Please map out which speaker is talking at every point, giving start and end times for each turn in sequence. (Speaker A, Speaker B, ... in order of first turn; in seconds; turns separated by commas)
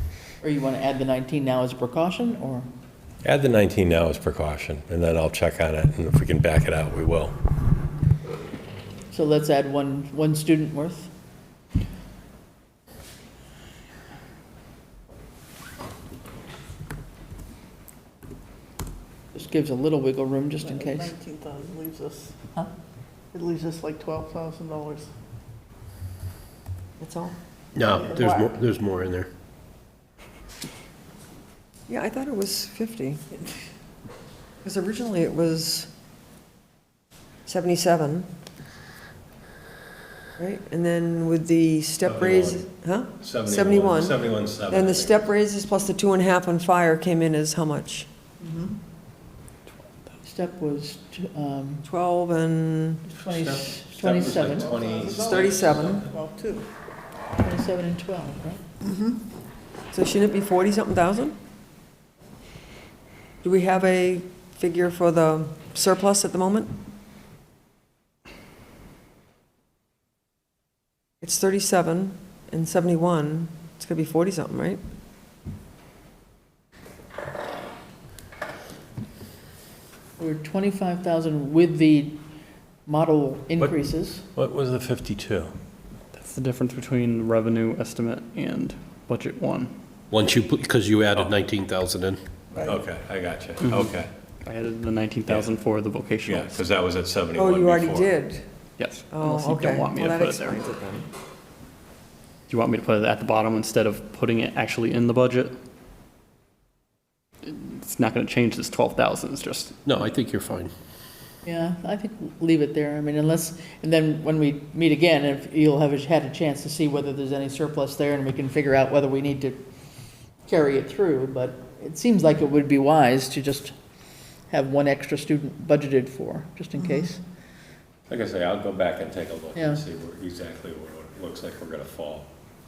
Speaker A: 0.4-2.7, Speaker B: 3.2-7.4, Speaker A: 9.1-11.1, Speaker A: 19.3-21.1, Speaker C: 21.3-21.7, Speaker D: 27.0-27.4, Speaker E: 27.8-29.3, Speaker D: 31.9-33.2, Speaker D: 34.6-35.9, Speaker D: 37.5-38.3, Speaker D: 40.4-48.1, Speaker B: 42.0-42.6, Speaker B: 43.2-45.2, Speaker A: 50.2-51.8, Speaker D: 51.8-53.1, Speaker A: 53.1-54.8, Speaker B: 53.3-56.0, Speaker C: 54.8-56.5, Speaker D: 55.1-56.0, Speaker A: 57.4-58.6, Speaker D: 59.9-61.4, Speaker D: 63.4-66.8, Speaker D: 71.2-74.8, Speaker A: 80.2-82.2, Speaker A: 82.9-84.3, Speaker B: 84.4-85.5, Speaker F: 86.1-89.7, Speaker E: 90.1-92.2, Speaker B: 92.6-94.1, Speaker F: 93.6-96.5, Speaker B: 96.3-98.1, Speaker D: 97.4-98.5, Speaker F: 98.8-100.6, Speaker D: 99.1-101.1, Speaker F: 102.5-105.5, Speaker F: 107.4-109.8, Speaker E: 109.8-110.7, Speaker A: 111.5-119.6, Speaker A: 120.5-123.7, Speaker A: 124.5-127.2, Speaker B: 128.1-132.3, Speaker A: 129.6-129.8